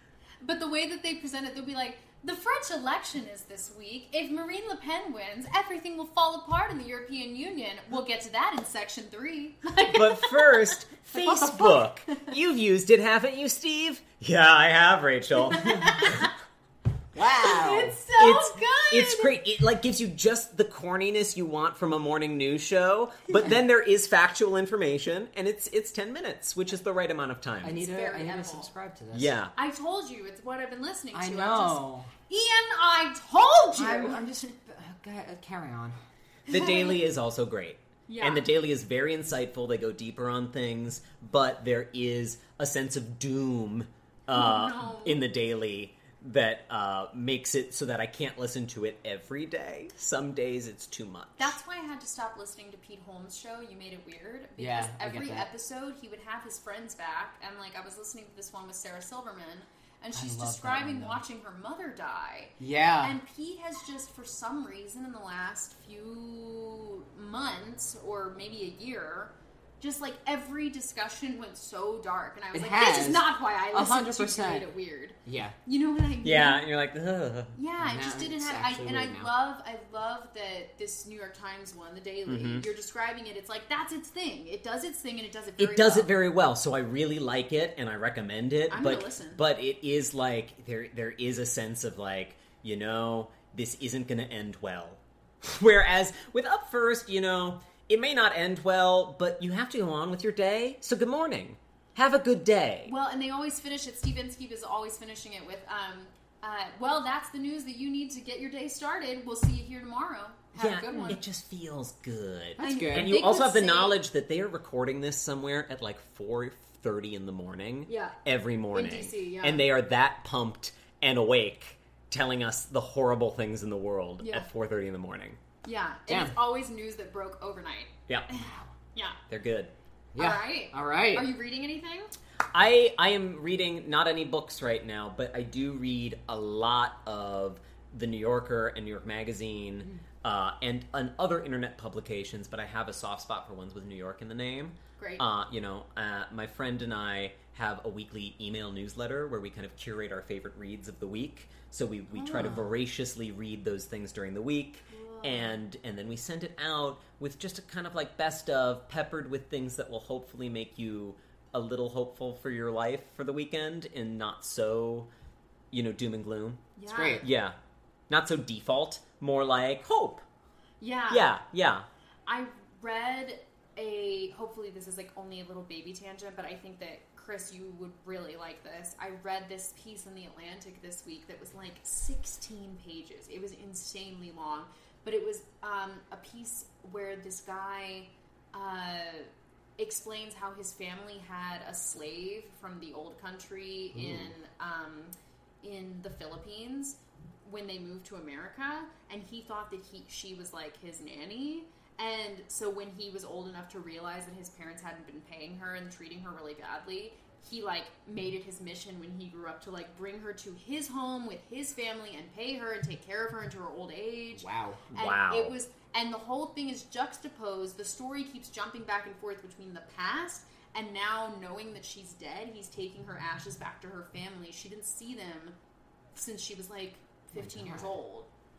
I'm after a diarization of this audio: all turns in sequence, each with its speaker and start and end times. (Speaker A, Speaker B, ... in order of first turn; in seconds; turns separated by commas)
Speaker A: 0.4-12.3, Speaker B: 9.9-16.3, Speaker A: 15.5-16.3, Speaker C: 17.1-18.0, Speaker A: 17.2-19.3, Speaker B: 18.2-27.8, Speaker C: 27.6-29.3, Speaker A: 27.8-28.7, Speaker B: 29.1-29.5, Speaker A: 29.5-34.2, Speaker C: 31.1-32.1, Speaker C: 33.8-36.0, Speaker A: 36.5-37.0, Speaker B: 36.5-51.5, Speaker A: 38.1-38.5, Speaker A: 44.3-45.2, Speaker A: 51.4-76.6, Speaker C: 54.6-55.5, Speaker C: 60.1-61.2, Speaker C: 62.6-63.1, Speaker C: 72.5-74.7, Speaker C: 75.2-75.5, Speaker B: 76.2-77.5, Speaker A: 77.5-86.1, Speaker C: 77.8-79.3, Speaker B: 82.2-82.7, Speaker B: 85.6-102.9, Speaker A: 88.7-89.4, Speaker A: 102.8-111.2, Speaker B: 110.5-125.4, Speaker C: 112.6-113.2, Speaker A: 112.6-114.0, Speaker A: 117.9-118.2, Speaker A: 118.7-119.7, Speaker A: 124.2-124.5, Speaker A: 125.6-129.2, Speaker C: 126.1-126.3, Speaker B: 128.1-128.3, Speaker B: 129.3-129.7, Speaker C: 130.1-131.3, Speaker A: 130.2-132.1, Speaker B: 132.5-165.1, Speaker A: 145.0-145.2, Speaker A: 152.2-152.5, Speaker C: 152.2-152.6, Speaker A: 154.9-155.6, Speaker B: 165.7-167.5, Speaker A: 166.8-167.3, Speaker C: 166.9-167.2, Speaker B: 168.1-170.2, Speaker A: 170.8-171.3, Speaker B: 171.1-171.9, Speaker A: 172.3-225.6, Speaker C: 214.3-214.8, Speaker B: 214.9-215.5, Speaker A: 226.1-228.3, Speaker C: 227.3-228.0